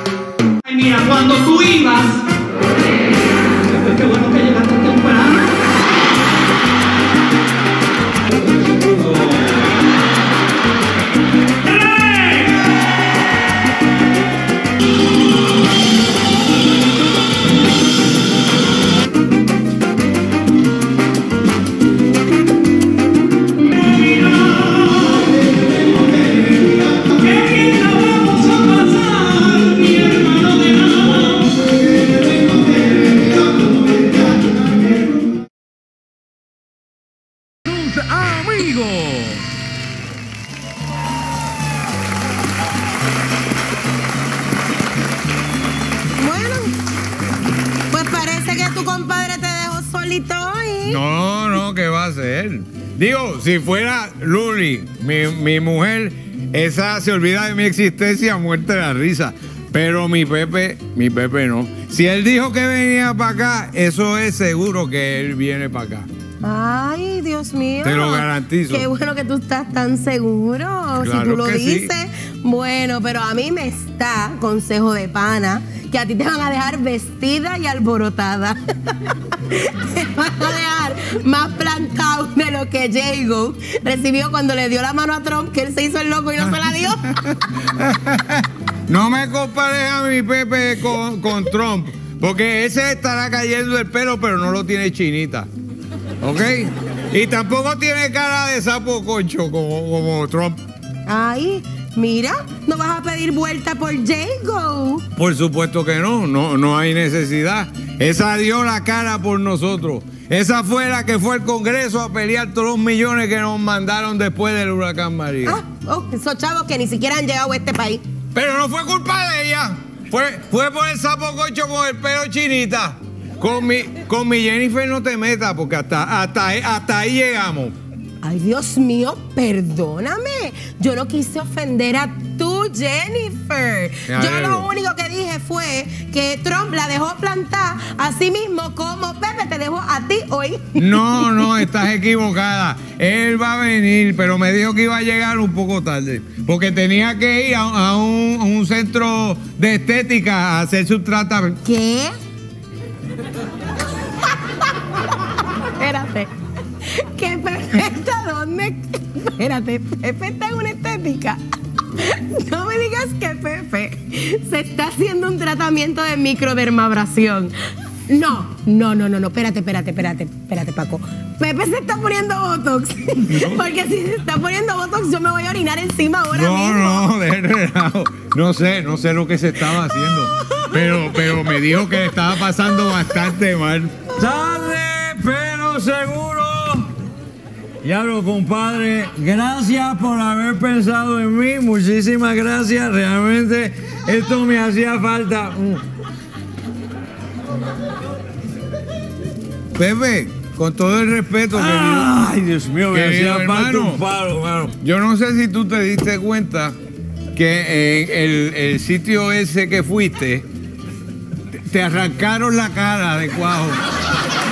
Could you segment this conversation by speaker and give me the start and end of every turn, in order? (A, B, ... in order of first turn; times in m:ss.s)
0:00.7-0:02.1 A
0:03.8-0:05.4 A
0:37.6-0:39.4 B
0:46.2-0:46.7 C
0:47.9-0:51.0 C
0:50.8-1:06.1 B
1:06.4-1:27.0 C
1:07.8-1:08.9 B
1:11.0-1:11.9 B
1:27.1-1:35.5 B
1:36.2-1:40.6 B
1:41.1-1:45.0 C
1:45.1-1:55.6 B
1:55.4-1:58.0 C
1:58.3-2:07.7 B
2:08.2-2:21.4 C
2:14.1-2:14.7 B
2:20.8-2:31.6 B
2:31.6-2:32.1 C
2:35.8-2:36.3 C
2:36.9-2:41.4 C
2:42.0-2:47.5 C
2:48.1-2:57.0 C
2:53.3-2:53.6 B
2:56.3-3:03.9 B
3:00.4-3:01.4 C
3:04.2-3:06.9 D
3:07.8-3:15.8 D
3:19.8-3:22.1 B
3:21.5-3:24.7 D
3:22.9-3:24.0 B
3:24.8-3:26.8 B
3:27.3-3:30.4 B
3:31.7-3:33.8 B